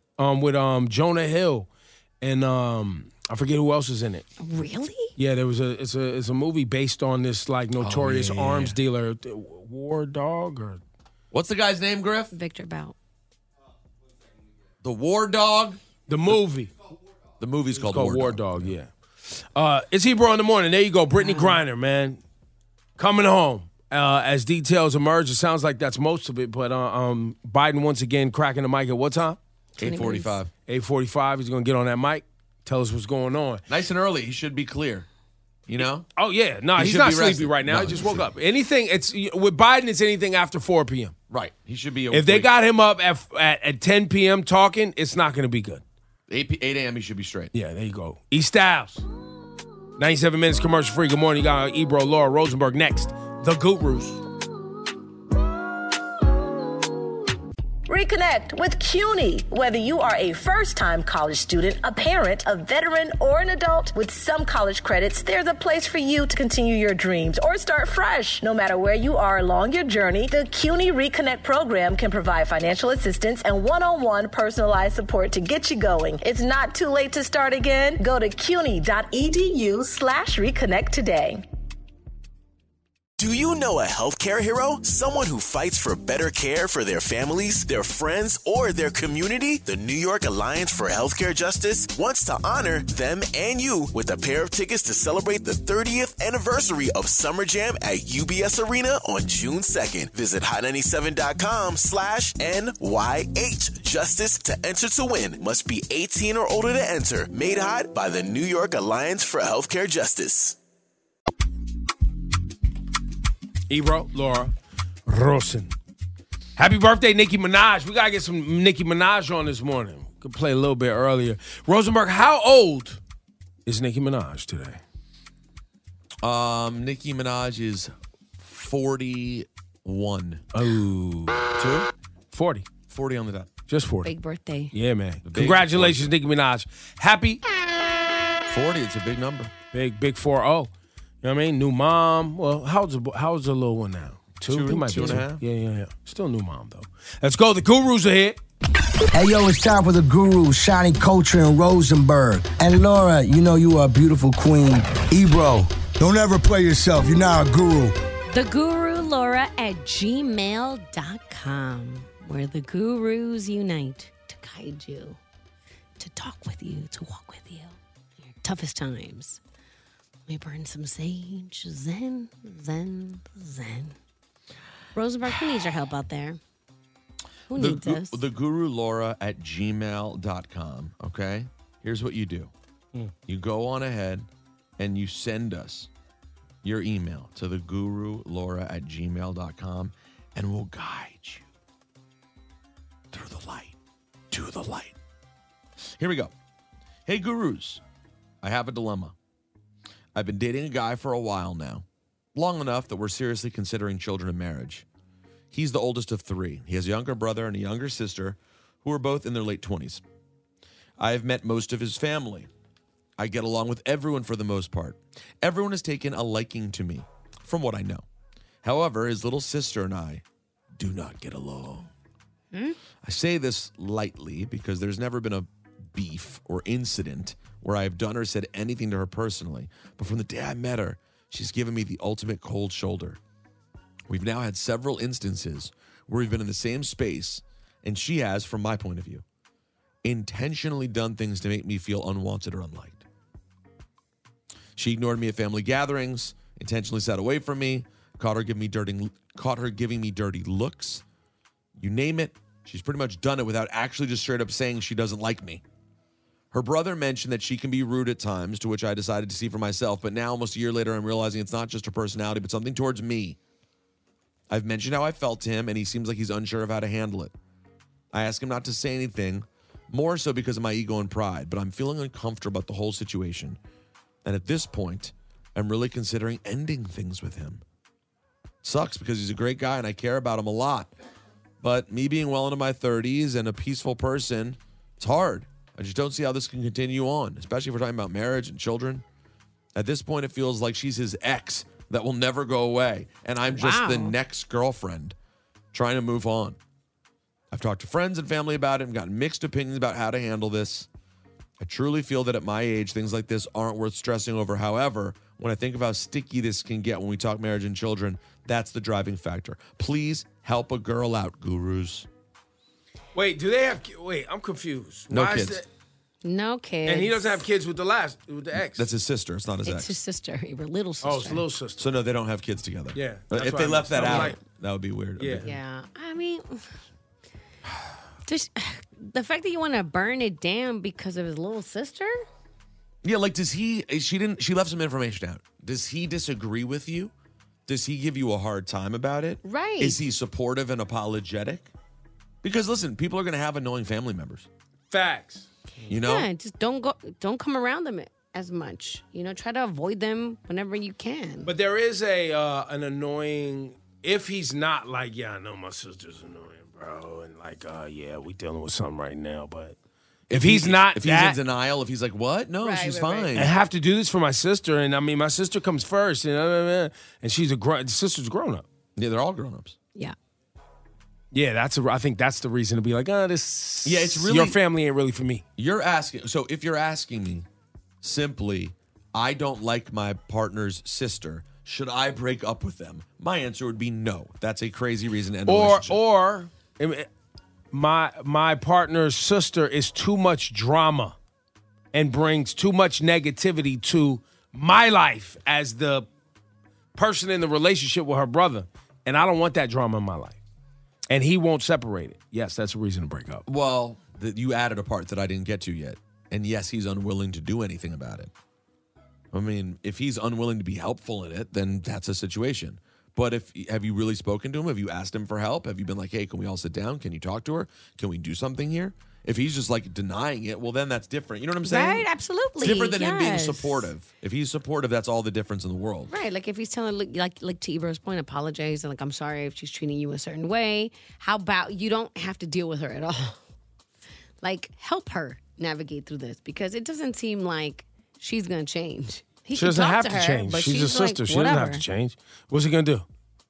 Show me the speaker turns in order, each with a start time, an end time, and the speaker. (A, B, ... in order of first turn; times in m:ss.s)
0:00.2-0:01.7 A
0:02.2-0:04.2 A
0:04.4-0:05.1 B
0:05.2-0:10.8 A
0:07.8-0:08.8 C
0:11.3-0:12.3 C
0:12.3-0:12.9 B
0:14.8-0:15.8 C
0:16.1-0:16.7 A
0:17.4-0:18.8 C
0:17.7-0:22.2 A
0:21.2-0:21.6 B
0:23.0-0:29.4 A
0:29.8-0:30.4 B
0:29.8-0:30.5 C
0:30.7-0:33.6 A
0:33.7-0:35.0 C
0:35.7-0:36.1 C
0:35.8-0:41.1 A
0:36.7-0:38.3 C
0:41.3-0:42.5 C
0:42.1-0:45.8 A
0:46.3-0:47.5 C
0:47.5-0:49.0 A
0:50.0-0:54.2 A
0:57.9-1:21.4 D
1:23.2-1:50.6 E
1:53.7-1:54.5 A
1:55.1-1:55.7 A
1:56.6-2:03.0 A
2:03.6-2:04.8 A
2:06.2-2:10.4 C
2:10.5-2:11.5 A
2:11.5-2:11.9 C
2:12.3-2:12.7 A
2:12.9-2:13.5 C
2:13.7-2:14.1 A
2:14.0-2:14.7 B
2:14.7-2:17.4 A
2:15.2-2:16.1 C
2:18.5-2:19.5 C
2:19.7-2:20.7 A
2:21.2-2:28.4 A
2:24.4-2:25.4 C
2:24.9-2:25.2 B
2:29.1-2:37.9 F
2:38.3-2:45.2 B
2:46.0-2:47.8 B
2:48.3-2:49.4 B
2:50.3-2:53.9 B
2:54.9-2:56.4 B
2:57.5-2:58.2 B
2:57.5-3:02.5 C
3:03.2-3:04.3 C
3:04.8-3:05.9 C
3:06.6-3:11.4 C
3:13.1-3:13.7 C
3:14.3-3:14.9 C
3:16.0-3:16.3 C
3:17.0-3:17.8 C
3:18.4-3:19.1 C
3:20.1-3:21.8 C
3:22.3-3:24.8 C
3:25.5-3:30.0 C
3:31.0-3:32.5 C
3:33.2-3:38.0 C
3:38.6-3:40.2 C
3:40.8-3:41.9 C
3:43.0-3:53.2 C
3:54.1-3:59.2 C
4:00.0-4:03.0 C
4:04.8-4:11.0 C
4:11.8-4:15.6 C
4:16.5-4:23.4 C
4:24.5-4:27.3 C
4:28.1-4:33.6 C
4:34.2-4:37.6 C
4:38.6-4:40.9 C
4:41.6-4:49.0 C
4:49.8-4:55.1 C
4:53.5-4:54.2 B
4:55.7-4:56.6 C
4:57.5-5:00.9 C
5:01.6-5:12.1 C
5:13.1-5:15.6 A
5:15.1-5:15.6 C
5:16.2-5:17.4 B
5:16.8-5:18.9 A
5:18.6-5:20.0 C
5:19.6-5:21.4 B
5:21.0-5:21.8 A
5:21.8-5:25.5 C
5:22.9-5:24.4 A
5:24.0-5:24.3 B
5:25.2-5:25.5 A
5:25.4-5:26.6 B
5:28.2-5:32.2 B
5:33.0-5:37.1 C
5:37.7-5:41.7 C
5:39.4-5:40.0 B
5:42.4-5:44.5 C
5:44.9-5:45.5 A
5:45.9-5:46.3 C
5:46.0-5:51.5 B
5:51.4-5:59.8 A
6:00.3-6:03.5 C
6:00.3-6:01.4 A
6:02.6-6:03.4 B
6:03.3-6:08.6 A
6:09.0-6:09.8 C
6:11.3-6:15.4 A
6:13.8-6:14.6 C
6:15.6-6:17.4 C
6:18.0-6:26.0 C
6:25.4-6:27.1 A
6:27.7-6:31.2 A
6:31.9-6:36.1 A
6:36.9-6:40.4 A
6:41.1-6:43.4 A
6:43.4-6:48.3 C
6:49.3-7:02.0 C
7:01.6-7:03.9 B
7:02.6-7:06.1 C
7:06.1-7:13.4 B
7:14.4-7:21.8 B
7:19.5-7:23.0 A